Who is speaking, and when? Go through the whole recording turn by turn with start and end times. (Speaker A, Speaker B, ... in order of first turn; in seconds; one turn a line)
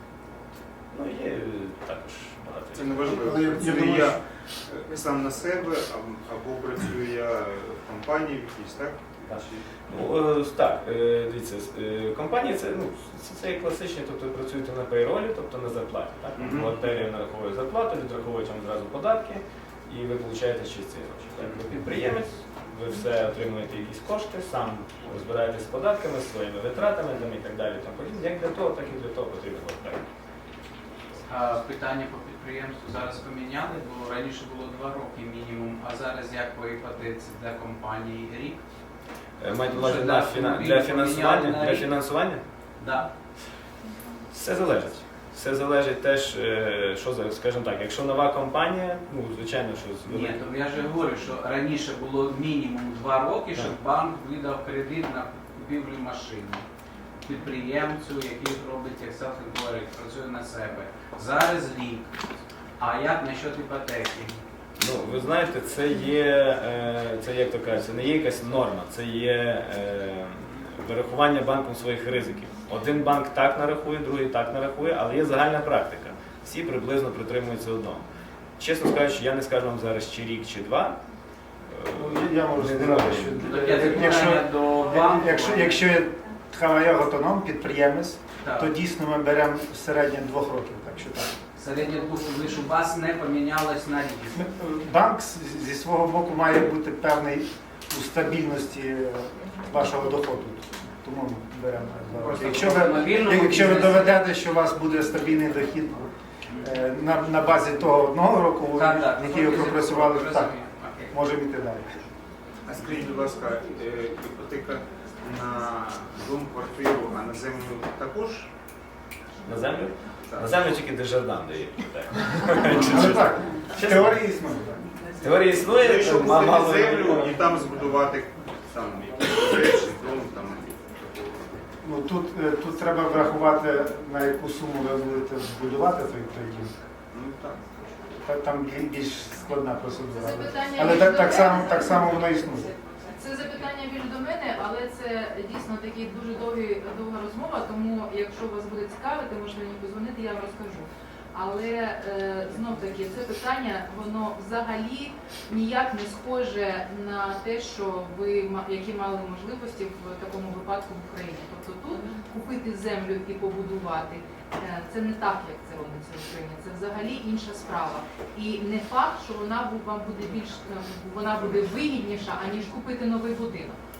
Speaker A: 0.9-3.5
Speaker B: 2.8-9.6
Speaker C: 3.1-4.2
Speaker A: 9.3-30.1
Speaker B: 16.4-16.8
Speaker D: 31.3-38.6
Speaker A: 39.4-42.4
Speaker D: 39.7-41.9
Speaker D: 42.8-43.1
Speaker A: 44.3-50.4
Speaker D: 50.0-56.6
Speaker D: 57.2-62.1
Speaker D: 62.8-64.4
Speaker A: 64.8-78.0
Speaker A: 78.6-81.0
Speaker A: 81.7-83.8
Speaker C: 81.9-91.4
Speaker D: 83.4-85.9
Speaker D: 88.4-88.7
Speaker D: 91.5-94.4
Speaker C: 94.3-106.1
Speaker B: 102.2-103.1
Speaker D: 102.3-104.2
Speaker C: 106.6-110.5
Speaker D: 108.8-111.1
Speaker C: 111.1-112.0
Speaker B: 112.7-118.5
Speaker A: 119.5-124.2
Speaker B: 120.3-120.6
Speaker C: 122.7-124.9
Speaker A: 125.2-127.4
Speaker B: 125.6-131.4
Speaker C: 131.8-136.8
Speaker B: 137.1-137.8
Speaker C: 138.2-142.7
Speaker E: 140.1-142.5
Speaker E: 143.1-173.8